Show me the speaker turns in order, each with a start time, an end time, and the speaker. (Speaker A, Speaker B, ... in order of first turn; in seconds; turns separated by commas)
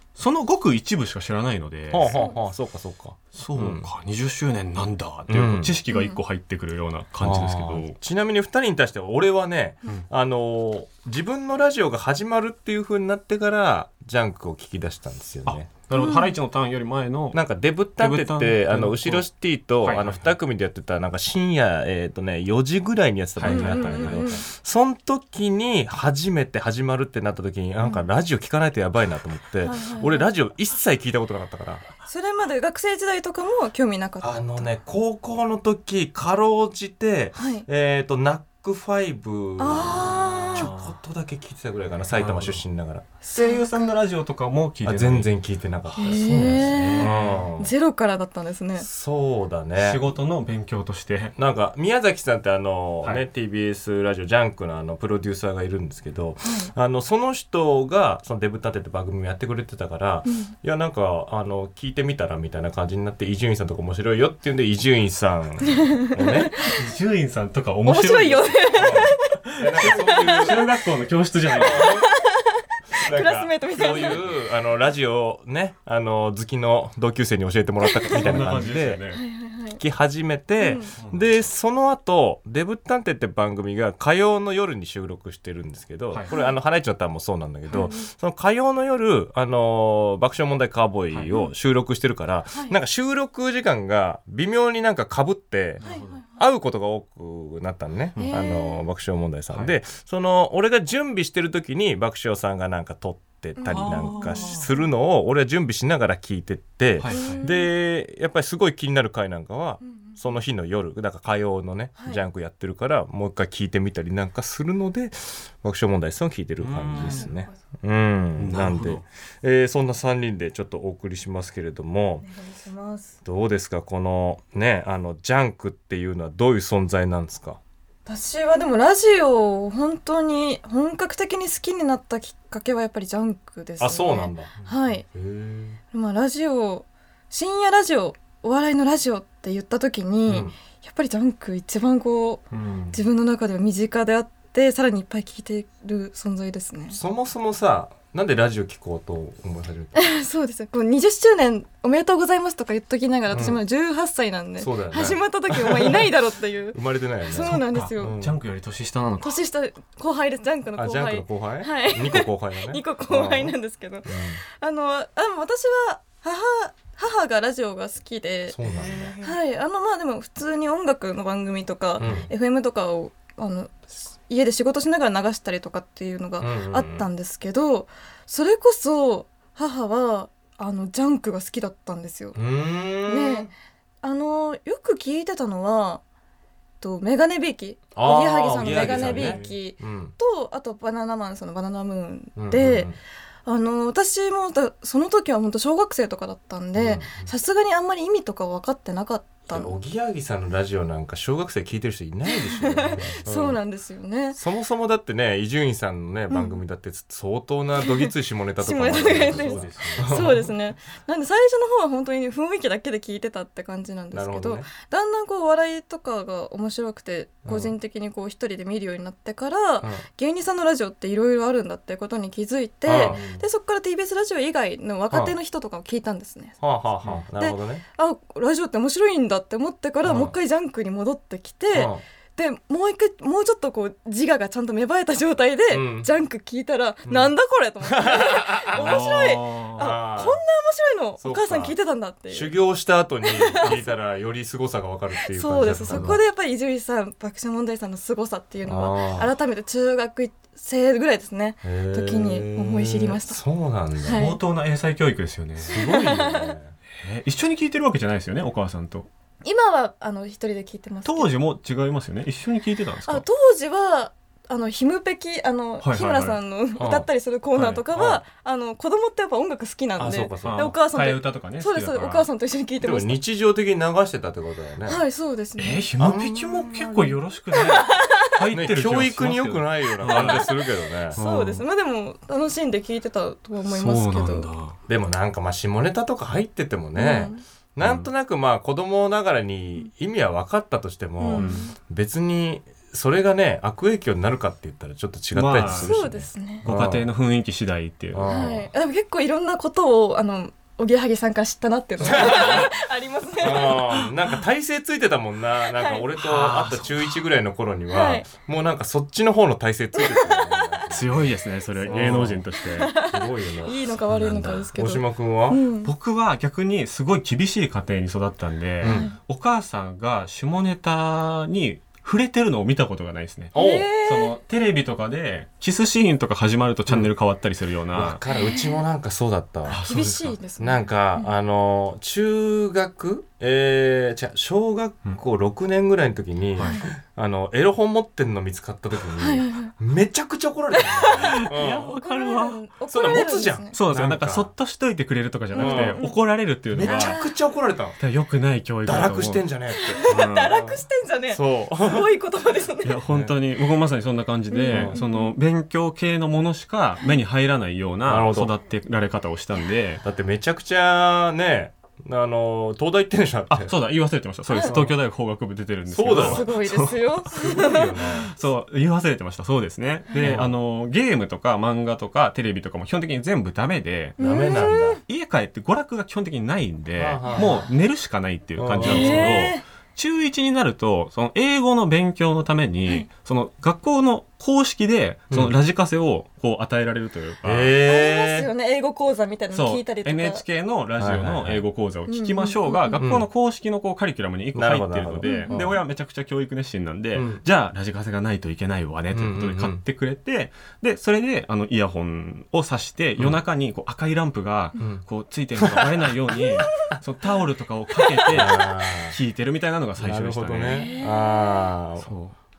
Speaker A: 0.2-2.1, Speaker B: 1.9-3.9, Speaker C: 2.0-2.4, Speaker A: 3.3-8.0, Speaker B: 5.3-5.8, Speaker C: 5.9-6.2, Speaker B: 7.2-15.7, Speaker A: 15.5-17.4, Speaker C: 15.9-16.3, Speaker B: 17.3-31.9, Speaker A: 18.0-19.3, Speaker A: 19.8-20.2, Speaker A: 23.4-24.4, Speaker C: 23.4-24.4, Speaker C: 29.6-30.3, Speaker C: 32.1-34.7, Speaker B: 34.2-43.0, Speaker C: 37.4-37.6, Speaker C: 39.6-40.7, Speaker A: 40.5-41.0, Speaker A: 42.1-42.6, Speaker C: 43.2-43.9, Speaker A: 43.4-45.3, Speaker B: 44.8-47.7, Speaker C: 46.0-48.9, Speaker A: 46.0-47.5, Speaker B: 48.8-50.0, Speaker A: 49.8-51.3, Speaker B: 51.4-66.8, Speaker C: 56.4-56.7, Speaker C: 60.3-60.5, Speaker C: 65.7-66.8, Speaker A: 66.7-68.5, Speaker C: 67.9-70.7, Speaker B: 68.8-70.7, Speaker A: 69.8-71.9, Speaker B: 71.5-72.1, Speaker C: 71.6-74.2, Speaker B: 73.0-79.0, Speaker C: 77.8-78.5, Speaker A: 78.1-79.2, Speaker C: 79.1-79.8, Speaker B: 79.8-122.2, Speaker C: 80.6-80.9, Speaker A: 81.0-81.3, Speaker C: 86.3-86.6, Speaker C: 87.7-88.1, Speaker A: 91.1-91.4, Speaker C: 92.5-92.8, Speaker A: 95.8-96.2, Speaker C: 95.8-96.4, Speaker A: 98.2-98.4, Speaker C: 98.2-98.8, Speaker C: 103.6-104.6, Speaker A: 103.7-104.7, Speaker A: 107.0-107.4, Speaker C: 107.1-107.7, Speaker C: 109.8-110.2, Speaker A: 116.6-117.3, Speaker C: 117.0-117.5, Speaker A: 118.4-119.0, Speaker C: 122.2-123.2, Speaker B: 123.2-127.6, Speaker C: 128.1-135.1, Speaker B: 133.8-135.8, Speaker C: 135.9-147.0, Speaker B: 140.3-140.6, Speaker A: 142.5-143.0, Speaker B: 146.9-149.9, Speaker C: 149.9-158.2, Speaker B: 153.3-153.6, Speaker B: 154.6-156.1, Speaker B: 156.7-158.3, Speaker A: 157.3-159.4, Speaker C: 159.2-168.6, Speaker B: 160.8-164.4, Speaker B: 168.5-169.1, Speaker A: 168.6-169.3, Speaker C: 169.2-182.4, Speaker B: 172.0-172.3, Speaker B: 176.4-177.1, Speaker B: 182.3-183.5, Speaker C: 183.1-186.0, Speaker C: 186.8-192.9, Speaker B: 188.0-190.2, Speaker A: 188.6-189.6, Speaker B: 192.4-193.0, Speaker C: 193.4-199.8, Speaker B: 196.8-197.3, Speaker B: 199.5-203.6, Speaker C: 202.5-204.4, Speaker B: 204.3-210.5, Speaker C: 206.3-206.6, Speaker C: 207.8-208.1, Speaker C: 208.6-226.6, Speaker A: 208.8-210.2, Speaker B: 214.1-214.7, Speaker B: 217.4-217.7, Speaker B: 222.8-223.3, Speaker A: 223.1-223.4, Speaker B: 226.6-227.8, Speaker C: 227.4-242.6, Speaker B: 230.0-230.3, Speaker B: 231.7-232.0, Speaker B: 235.7-236.1, Speaker B: 237.1-237.3, Speaker B: 237.8-239.2, Speaker A: 238.7-239.9, Speaker B: 239.8-240.4, Speaker B: 241.2-241.8, Speaker B: 242.3-246.2, Speaker C: 243.3-243.8, Speaker C: 245.2-253.4, Speaker A: 245.7-246.2, Speaker B: 248.7-249.3, Speaker B: 251.6-254.2, Speaker C: 254.0-254.4, Speaker A: 254.1-256.0, Speaker B: 255.6-256.8, Speaker C: 255.7-256.6, Speaker A: 256.9-259.1, Speaker C: 259.4-261.3, Speaker A: 261.1-263.2, Speaker C: 263.1-273.2, Speaker A: 265.8-266.4, Speaker B: 266.8-268.2, Speaker B: 270.0-270.6, Speaker A: 270.4-272.3, Speaker B: 272.8-275.0, Speaker C: 274.9-275.9, Speaker A: 275.6-280.5, Speaker B: 276.0-276.9, Speaker C: 277.6-278.3, Speaker B: 278.5-281.2, Speaker C: 280.0-280.5, Speaker A: 281.1-281.6, Speaker C: 281.1-284.5, Speaker A: 283.6-284.8, Speaker B: 284.9-297.1, Speaker C: 287.0-287.4, Speaker A: 287.8-288.1, Speaker C: 291.2-291.7, Speaker A: 291.3-291.7, Speaker A: 295.3-295.9, Speaker C: 295.8-296.7, Speaker A: 296.6-298.3, Speaker B: 298.1-298.7, Speaker C: 298.3-304.1, Speaker B: 302.0-302.7, Speaker A: 302.2-302.6, Speaker B: 303.4-311.3, Speaker C: 305.8-306.0, Speaker A: 306.2-306.9, Speaker C: 307.9-308.3, Speaker C: 309.9-310.8, Speaker A: 310.9-312.9, Speaker C: 311.7-315.9, Speaker B: 311.9-315.6, Speaker A: 315.8-328.2, Speaker B: 318.8-319.1, Speaker C: 318.8-319.2, Speaker B: 323.5-323.9, Speaker C: 323.5-324.4, Speaker B: 327.9-329.8, Speaker C: 328.3-328.8, Speaker C: 329.7-331.3, Speaker A: 329.7-330.4, Speaker B: 330.6-341.9, Speaker A: 336.6-336.8, Speaker C: 336.6-336.9, Speaker C: 339.2-339.7, Speaker C: 340.7-343.8, Speaker A: 341.4-342.6, Speaker B: 342.9-344.5, Speaker A: 343.7-347.2, Speaker C: 345.5-346.2, Speaker B: 345.6-346.1, Speaker B: 346.7-348.0, Speaker C: 346.8-347.2, Speaker A: 348.0-349.5, Speaker B: 348.8-352.1, Speaker C: 349.8-353.0, Speaker A: 350.0-350.5, Speaker A: 352.8-360.0, Speaker B: 353.1-353.4, Speaker C: 354.5-355.3, Speaker B: 354.7-355.0, Speaker B: 358.1-358.5, Speaker B: 360.0-363.7, Speaker A: 363.5-367.0, Speaker C: 364.5-364.8, Speaker B: 364.6-365.0, Speaker B: 365.9-366.5, Speaker C: 366.1-367.9, Speaker B: 367.3-368.3, Speaker A: 368.2-387.7, Speaker C: 370.1-370.4, Speaker B: 370.2-370.5, Speaker C: 374.2-375.0, Speaker B: 374.2-375.0, Speaker B: 377.0-377.7, Speaker C: 377.2-377.6, Speaker B: 378.6-379.5, Speaker C: 378.8-379.6, Speaker B: 387.4-388.5, Speaker C: 387.9-390.4, Speaker A: 389.5-410.9, Speaker B: 391.0-391.6, Speaker C: 392.1-393.1, Speaker B: 393.0-393.3, Speaker B: 394.6-395.8, Speaker C: 395.2-395.6, Speaker B: 397.1-397.4, Speaker B: 399.1-399.8, Speaker B: 404.8-405.1, Speaker B: 405.6-406.0, Speaker C: 408.0-408.4, Speaker B: 408.3-409.2, Speaker B: 410.0-412.1, Speaker C: 410.7-411.7, Speaker A: 412.0-412.4